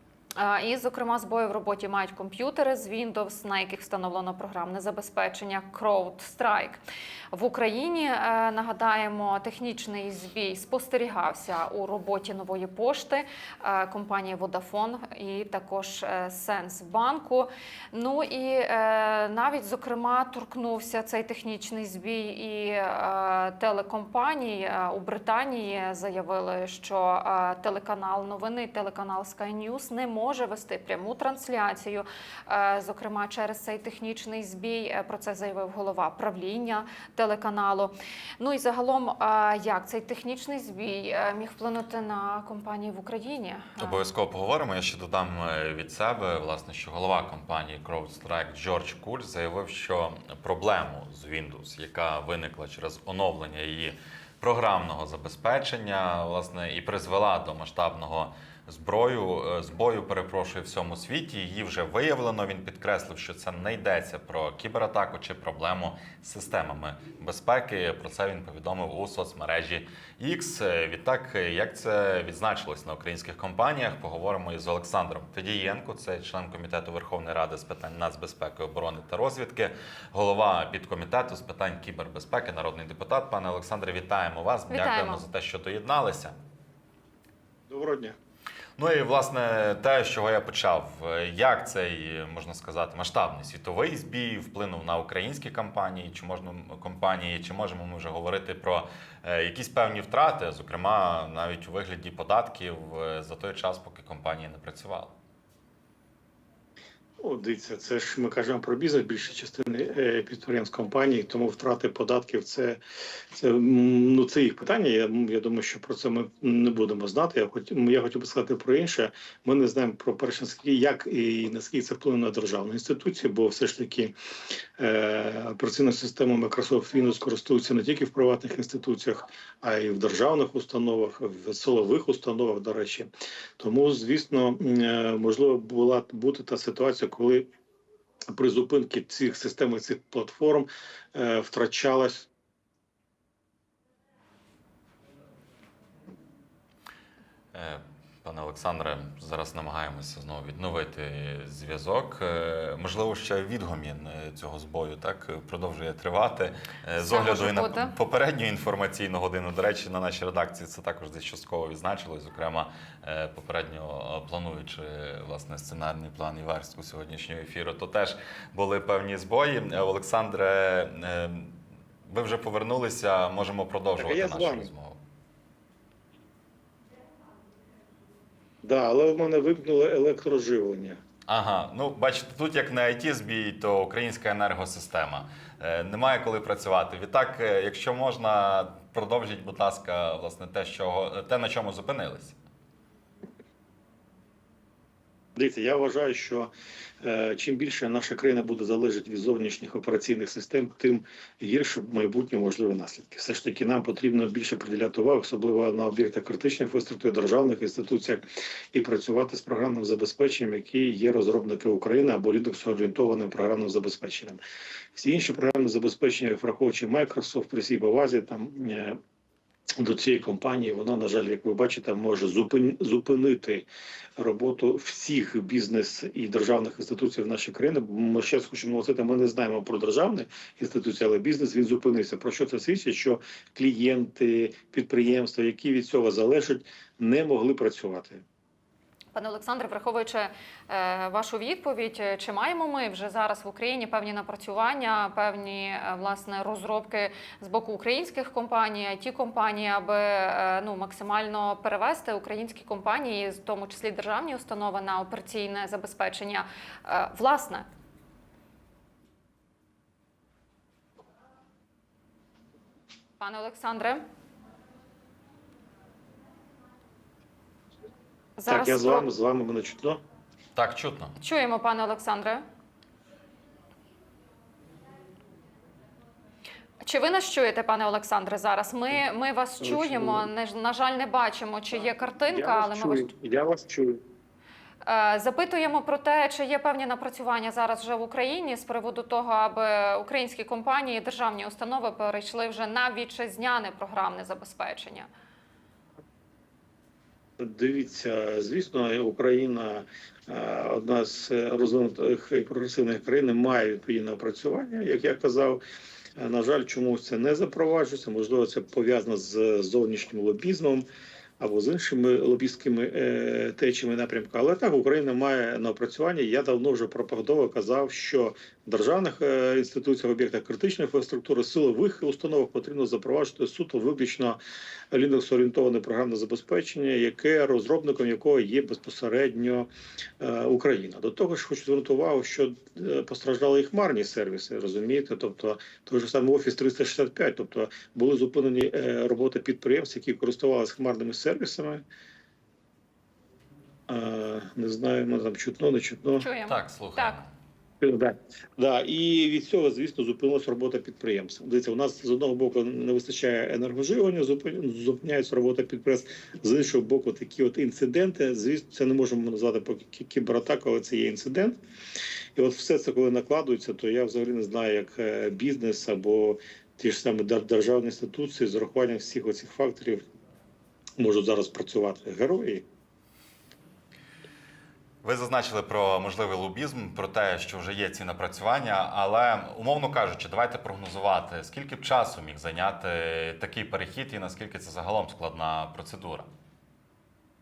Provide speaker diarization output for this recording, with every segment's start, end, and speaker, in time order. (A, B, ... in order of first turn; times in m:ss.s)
0:00.4-0:06.8 A
0:07.3-0:44.0 A
0:43.8-1:26.4 B
1:24.7-1:25.2 A
1:27.7-1:28.2 C
1:28.8-1:45.2 B
1:47.2-1:52.8 C
1:53.3-2:04.2 C
2:04.8-2:17.5 C
2:18.3-2:22.3 C
2:27.5-2:51.6 B
2:37.0-2:37.9 A
2:52.1-2:55.0 B
2:54.0-2:54.7 C
2:58.6-3:01.0 C
3:01.3-3:12.4 B
3:15.4-3:16.5 C
3:17.0-3:34.4 C
3:34.9-3:39.0 C
3:39.8-3:58.2 C
3:59.1-4:17.7 A
4:23.2-4:24.0 A
4:28.4-4:29.1 A
4:28.5-4:30.0 C
4:30.6-4:31.1 B
4:31.2-4:32.4 A
4:36.8-4:43.1 A
4:39.6-4:40.3 C
4:42.3-4:44.0 C
4:44.8-4:55.1 A
4:57.4-5:05.6 C
5:06.2-5:10.9 C
5:11.4-5:24.4 C
5:24.9-5:29.7 C
5:30.2-5:41.8 C
5:43.9-5:46.3 C
5:46.2-5:47.2 A
5:46.5-5:47.3 B
5:47.8-6:01.6 C
6:02.4-6:10.1 C
6:11.0-6:12.7 C
6:15.0-6:26.3 B